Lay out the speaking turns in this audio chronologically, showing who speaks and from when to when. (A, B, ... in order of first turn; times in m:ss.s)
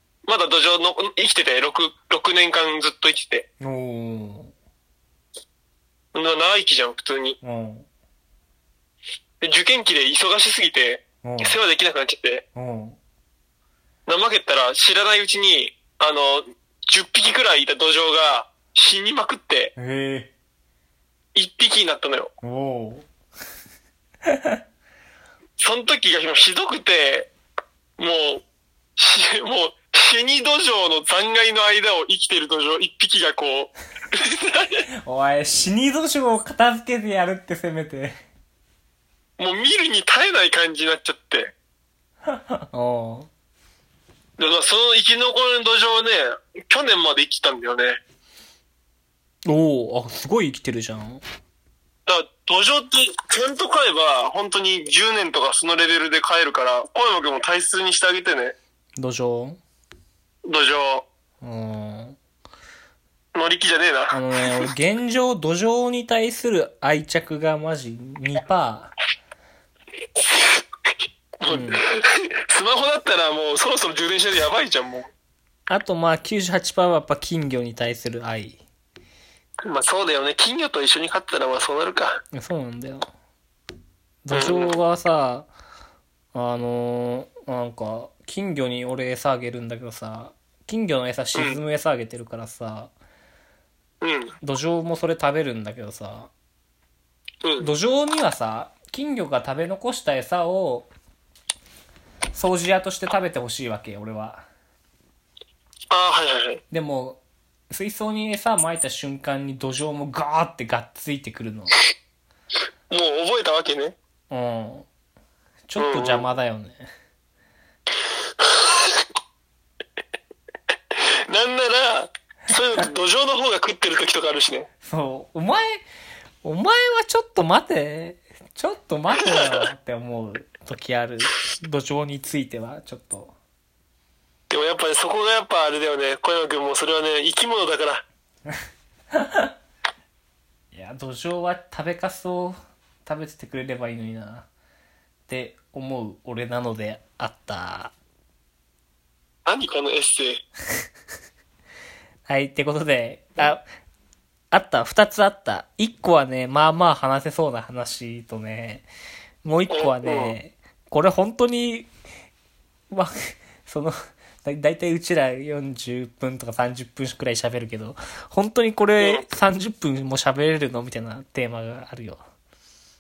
0:00.2-0:03.5 A
0:03.6-0:04.5 B
0:06.1-0:07.4 A
0:07.4-0:07.9 B
0:09.4-0:12.4 A
0:11.2-0:11.6 B
0:12.6-0:13.0 B
0:14.1-0:19.8 A
0:19.8-0:20.3 B
0:21.4-0:22.3 A
0:22.4-0:23.1 B
0:24.2-0:24.6 B
0:25.6-0:27.3 A
0:28.0-0:28.4 A
0:29.0-0:34.8 A
0:35.0-0:38.2 B
0:39.4-0:41.5 A
0:42.3-0:43.3 B
0:44.4-0:48.0 A
0:49.4-0:51.2 B
0:52.1-0:58.6 A
0:59.0-0:59.6 B
1:00.4-1:01.1 A
1:01.4-1:02.2 B
1:03.3-1:04.7 A
1:04.1-1:08.9 B
1:10.2-1:15.1 A
1:11.5-1:11.8 B
1:15.7-1:18.6 B
1:19.7-1:22.2 A
1:22.3-1:23.1 B
1:24.2-1:25.5 B
1:24.3-1:24.8 A
1:26.3-1:32.9 B
1:34.0-1:34.4 A
1:34.4-1:36.3 B
1:37.4-1:37.7 A
1:37.6-1:40.9 B
1:42.3-1:44.4 B
1:45.9-1:46.6 A
1:46.7-1:47.2 B
1:47.7-1:51.7 B
1:52.9-1:54.0 A
1:54.3-1:54.9 B
1:55.7-1:56.9 B
1:55.8-1:56.3 A
1:58.4-1:59.0 A
2:01.0-2:04.7 A
2:04.8-2:05.8 B
2:06.4-2:13.4 B
2:09.2-2:09.6 A
2:14.5-2:18.0 A
2:19.1-2:19.5 B
2:20.7-2:24.5 B
2:25.3-2:27.9 B
2:29.5-2:30.4 A
2:32.3-2:33.6 B
2:34.5-2:38.9 B
2:39.4-2:41.9 B
2:39.7-2:40.4 A
2:42.9-2:52.2 B
2:49.0-2:49.3 A